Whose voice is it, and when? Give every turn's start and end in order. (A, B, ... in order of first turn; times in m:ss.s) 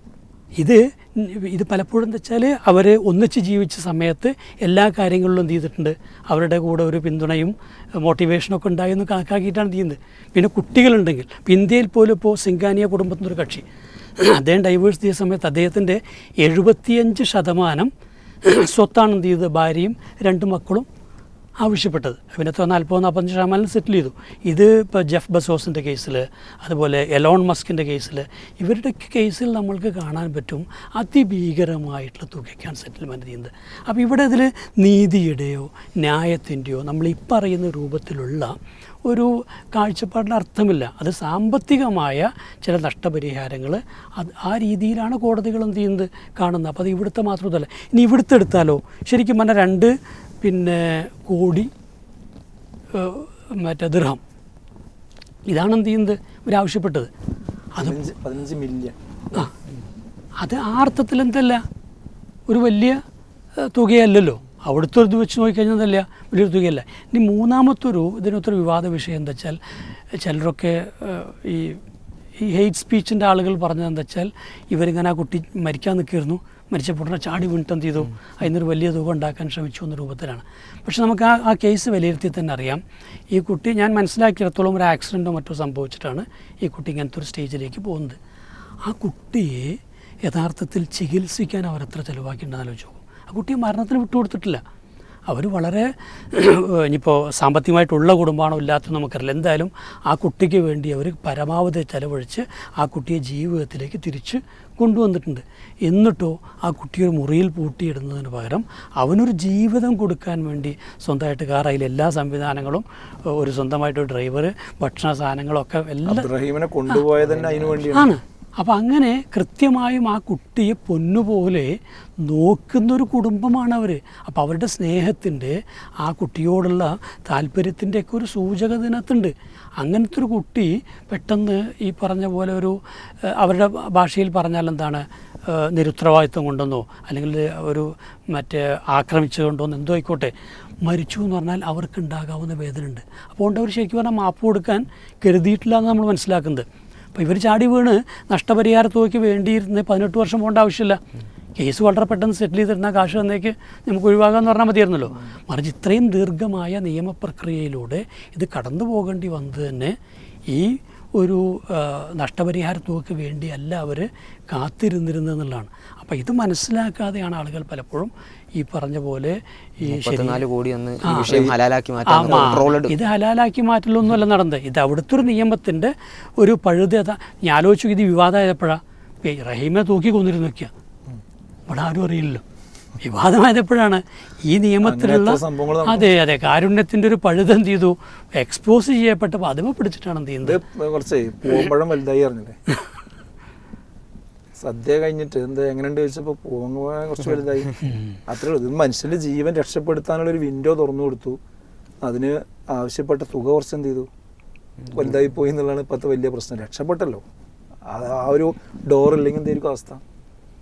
0:00.6-0:13.6 A
0:14.2-0:17.9 A
0:18.4-0:20.9 A
0:21.6-0:51.7 A
0:52.9-0:54.2 A
0:55.5-0:57.1 A
0:57.8-0:59.5 B
1:00.4-1:01.6 A
1:02.5-1:03.0 A
1:03.6-1:09.6 A
1:10.1-1:11.8 A
1:12.4-1:28.2 A
1:28.8-1:34.6 A
1:35.3-1:56.3 A
1:56.0-1:58.2 B
1:57.9-2:31.0 A
2:31.6-2:40.0 A
2:40.5-2:50.4 A
2:49.8-2:53.0 C
2:51.0-2:51.4 A
2:51.2-2:51.5 B
2:52.0-3:00.7 A
3:01.7-3:02.4 A
3:03.0-3:10.6 A
3:04.8-3:06.1 B
3:10.4-3:12.6 B
3:14.6-3:21.4 B
3:22.0-3:24.1 B
3:24.9-3:27.2 B
3:27.8-3:30.0 B